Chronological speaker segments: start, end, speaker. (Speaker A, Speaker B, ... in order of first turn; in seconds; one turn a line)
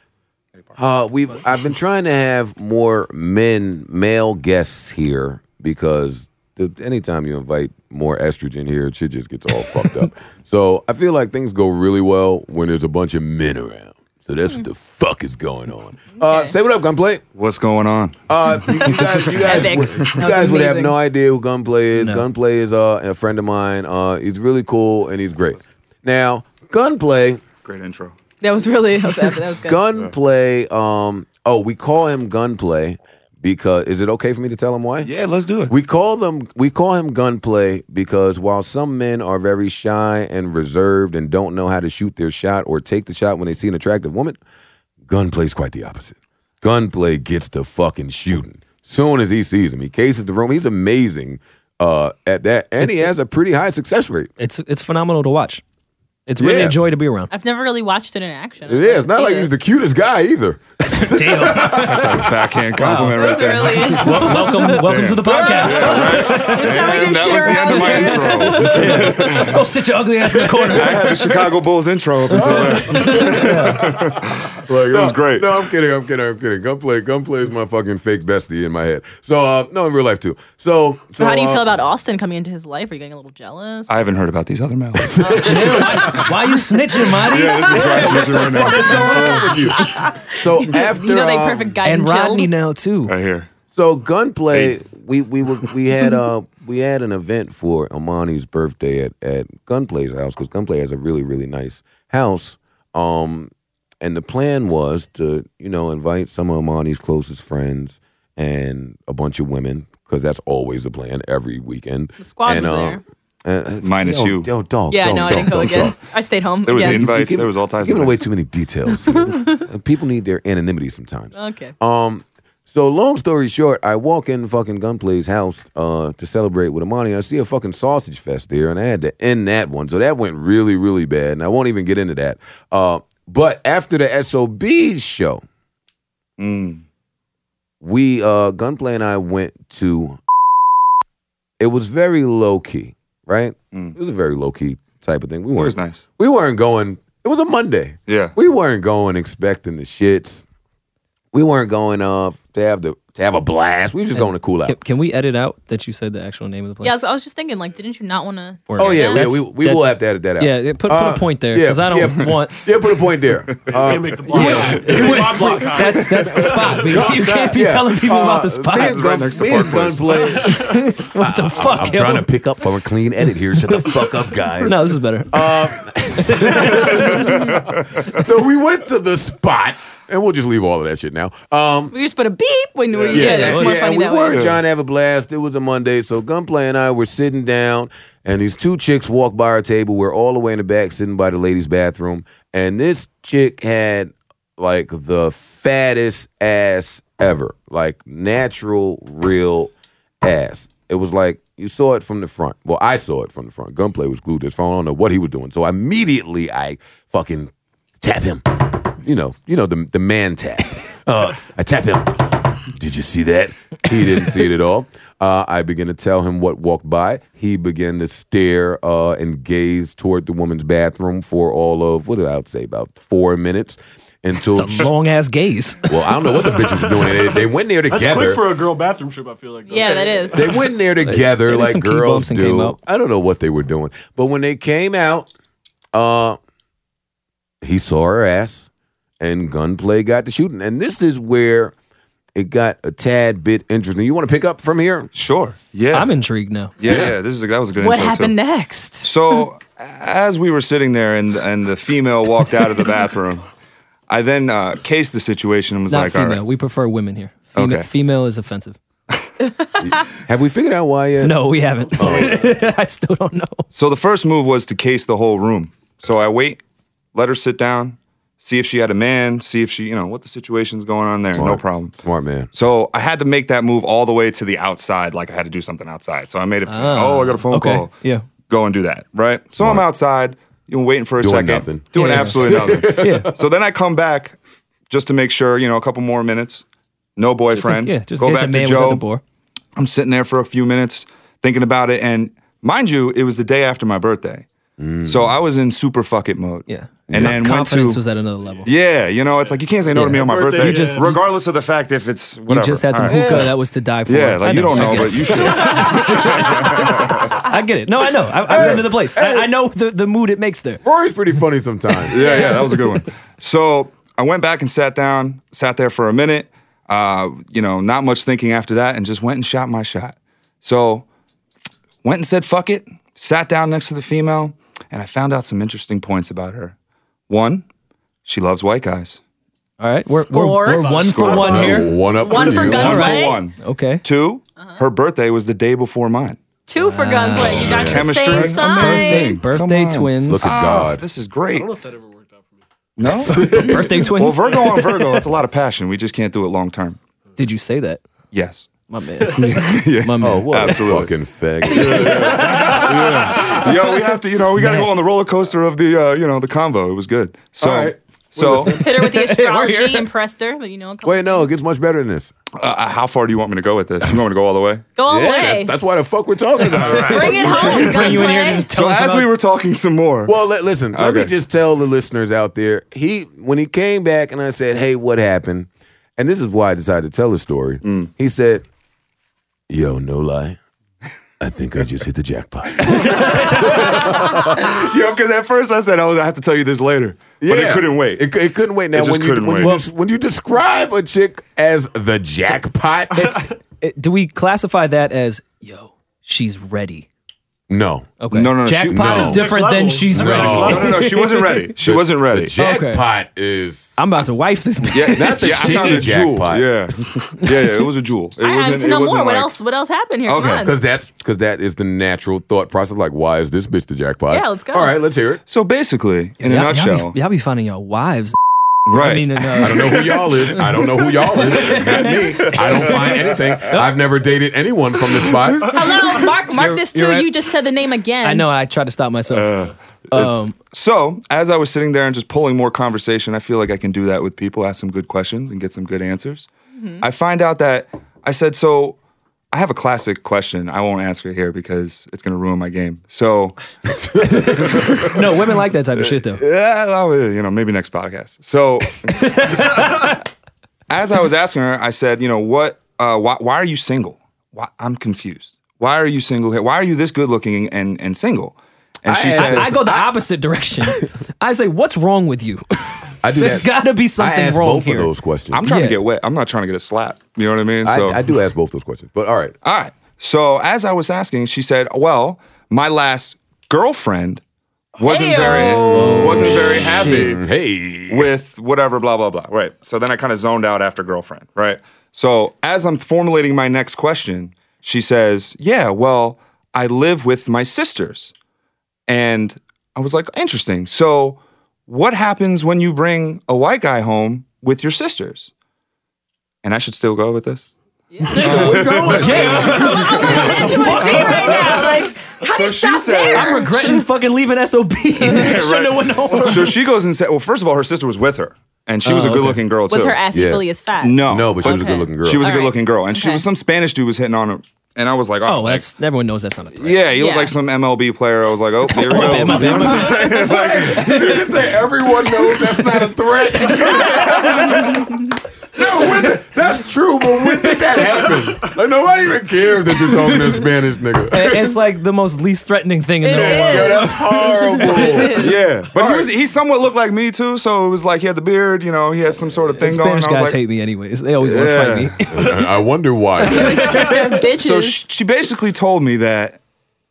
Speaker A: 0.8-17.2
Speaker B: 16.2-16.5
Speaker C: 17.3-18.2
Speaker A: 18.3-27.4
Speaker B: 18.7-20.9
Speaker C: 18.8-20.2
Speaker D: 22.0-22.2
Speaker C: 27.6-28.1
Speaker B: 28.4-29.8
Speaker A: 29.6-35.1
Speaker C: 35.0-35.7
Speaker A: 35.7-44.4
Speaker A: 45.1-54.3
Speaker D: 52.8-53.1
Speaker D: 54.4-55.6
Speaker D: 56.3-57.3
Speaker A: 56.4-56.8
Speaker B: 57.3-59.5
Speaker A: 58.7-62.5
Speaker D: 60.9-62.2
Speaker C: 61.7-69.7
Speaker D: 62.7-63.3
Speaker B: 62.9-64.9
Speaker D: 63.9-71.3
Speaker A: 65.2-66.5
Speaker B: 65.4-69.5
Speaker A: 68.7-69.3
Speaker C: 70.4-75.5
Speaker A: 70.7-71.4
Speaker A: 72.3-81.7
Speaker D: 72.3-73.9
Speaker B: 81.2-83.9
Speaker C: 83.9-86.2
Speaker A: 85.0-86.3
Speaker D: 85.3-89.0
Speaker C: 87.2-89.5
Speaker A: 87.7-91.8
Speaker B: 88.7-92.5
Speaker D: 91.8-93.1
Speaker C: 93.0-93.5
Speaker A: 93.7-116.0
Speaker B: 112.2-113.0
Speaker C: 113.8-114.5
Speaker B: 114.9-117.0
Speaker C: 116.7-118.2
Speaker A: 116.7-135.4
Speaker B: 119.1-119.5
Speaker B: 121.3-121.7
Speaker C: 136.4-136.8
Speaker A: 137.8-140.2
Speaker A: 141.6-150.4
Speaker C: 145.5-146.0
Speaker C: 148.1-148.3
Speaker A: 151.3-154.8
Speaker D: 154.1-157.0
Speaker B: 156.8-159.3
Speaker D: 158.7-162.6
Speaker A: 158.8-165.9
Speaker E: 163.8-167.6
Speaker D: 164.3-169.1
Speaker C: 164.3-165.3
Speaker A: 166.8-181.9
Speaker C: 168.7-170.3
Speaker D: 170.5-172.3
Speaker D: 173.5-177.5
Speaker C: 176.7-178.2
Speaker B: 181.9-184.5
Speaker D: 183.1-183.8
Speaker A: 183.1-224.9
Speaker C: 184.3-184.6
Speaker D: 224.6-225.9
Speaker A: 225.8-228.5
Speaker E: 226.2-230.6
Speaker B: 229.7-230.5
Speaker A: 230.3-235.3
Speaker D: 231.1-232.8
Speaker A: 235.9-236.4
Speaker A: 237.6-238.7
Speaker A: 239.2-241.7
Speaker A: 242.3-245.1
Speaker C: 245.1-246.1
Speaker D: 245.9-246.8
Speaker C: 246.8-248.3
Speaker A: 246.8-247.1
Speaker B: 247.8-249.1
Speaker C: 249.0-253.4
Speaker C: 254.1-256.4
Speaker D: 255.9-258.8
Speaker C: 257.5-257.9
Speaker A: 259.8-261.4
Speaker D: 261.2-263.7
Speaker A: 261.9-262.5
Speaker C: 263.7-266.6
Speaker C: 267.1-271.9
Speaker A: 271.3-272.5
Speaker C: 272.5-284.4
Speaker D: 276.7-278.3
Speaker A: 279.6-279.9
Speaker A: 281.2-283.3
Speaker D: 281.9-283.3
Speaker C: 284.9-286.6
Speaker C: 287.1-289.0
Speaker D: 287.5-289.2
Speaker C: 289.8-294.4
Speaker A: 294.8-295.4
Speaker C: 295.0-298.0
Speaker D: 296.7-298.7
Speaker A: 297.1-297.4
Speaker C: 298.6-303.5
Speaker D: 299.9-301.2
Speaker E: 300.1-301.1
Speaker D: 302.5-310.8
Speaker A: 303.1-303.5
Speaker C: 304.1-307.4
Speaker A: 308.5-309.5
Speaker C: 308.5-308.8
Speaker A: 310.8-312.4
Speaker C: 312.1-321.1
Speaker C: 322.0-326.7
Speaker C: 327.3-327.6
Speaker C: 328.2-329.2
Speaker D: 329.8-334.0
Speaker B: 330.1-331.4
Speaker E: 330.6-332.4
Speaker A: 331.1-333.1
Speaker C: 331.1-331.7
Speaker B: 332.1-333.4
Speaker C: 332.5-336.4
Speaker B: 336.7-339.3
Speaker D: 336.8-340.7
Speaker A: 337.5-338.4
Speaker C: 337.6-341.7
Speaker A: 340.3-341.0
Speaker E: 341.5-342.6
Speaker C: 343.0-347.0
Speaker D: 343.1-345.2
Speaker A: 343.2-344.1
Speaker D: 347.4-348.0
Speaker C: 348.3-351.1
Speaker D: 348.9-350.9
Speaker A: 350.2-353.7
Speaker D: 351.6-353.6
Speaker B: 351.7-352.8
Speaker C: 351.7-358.8
Speaker D: 354.6-354.9
Speaker A: 357.6-358.8
Speaker D: 358.7-360.1
Speaker B: 358.7-361.5
Speaker A: 361.0-362.3
Speaker C: 362.6-364.8
Speaker B: 365.0-365.7
Speaker A: 365.1-368.2
Speaker C: 366.7-370.4
Speaker D: 366.8-369.3
Speaker B: 367.0-368.7
Speaker A: 370.2-378.6
Speaker C: 370.9-371.3
Speaker C: 377.8-378.1
Speaker A: 379.7-380.6
Speaker A: 381.4-384.6
Speaker C: 382.8-388.2
Speaker D: 383.4-383.7
Speaker A: 387.4-393.5
Speaker C: 388.9-389.7
Speaker D: 393.2-397.1
Speaker A: 397.7-398.1
Speaker D: 398.2-401.7
Speaker C: 398.3-399.4
Speaker A: 398.9-399.4
Speaker E: 399.2-401.0
Speaker A: 400.1-401.0
Speaker C: 400.3-402.5
Speaker A: 401.8-403.9
Speaker D: 402.6-403.0
Speaker D: 404.0-406.0
Speaker C: 404.9-409.5
Speaker A: 405.1-407.0
Speaker B: 408.4-410.7
Speaker C: 410.2-410.7
Speaker A: 410.6-415.4
Speaker B: 414.3-414.9
Speaker C: 415.5-417.1
Speaker D: 416.4-418.4
Speaker C: 418.9-419.9
Speaker D: 418.9-424.0
Speaker A: 419.6-425.9
Speaker C: 422.4-423.1
Speaker B: 425.6-428.5
Speaker D: 426.4-427.3
Speaker D: 428.2-429.5
Speaker C: 429.3-436.5
Speaker D: 430.1-430.6
Speaker B: 436.7-437.0
Speaker C: 437.0-439.0
Speaker C: 439.5-443.6
Speaker A: 444.0-445.1
Speaker C: 444.2-445.4
Speaker D: 444.4-446.4
Speaker C: 445.9-450.1
Speaker D: 449.1-450.1
Speaker C: 450.9-459.7
Speaker A: 459.1-460.1
Speaker D: 459.4-465.1
Speaker A: 463.2-465.6
Speaker C: 465.5-468.2
Speaker D: 465.6-466.0
Speaker A: 467.8-469.5
Speaker C: 469.6-474.4
Speaker C: 474.9-477.4
Speaker B: 475.0-476.6
Speaker D: 475.4-477.3
Speaker A: 476.4-478.3
Speaker C: 478.1-488.3
Speaker C: 489.1-495.5
Speaker C: 496.6-497.7
Speaker B: 498.1-498.8
Speaker C: 498.3-503.7
Speaker A: 498.3-501.6
Speaker D: 498.5-502.0
Speaker B: 499.6-504.1
Speaker D: 503.3-506.8
Speaker C: 505.3-510.2
Speaker D: 509.0-509.6
Speaker B: 509.9-513.4
Speaker A: 510.3-510.6
Speaker C: 511.0-515.9
Speaker A: 511.3-512.5
Speaker D: 515.4-517.1
Speaker C: 516.7-521.5
Speaker B: 517.2-517.5
Speaker D: 518.9-521.5
Speaker A: 519.1-525.1
Speaker A: 525.7-531.7
Speaker D: 531.3-534.2
Speaker B: 533.2-535.5
Speaker A: 533.3-536.3
Speaker D: 534.9-535.3
Speaker C: 535.3-540.6
Speaker D: 539.8-542.6
Speaker C: 541.4-542.2
Speaker A: 542.3-544.0
Speaker B: 543.4-545.0
Speaker D: 543.5-544.4
Speaker C: 543.9-546.6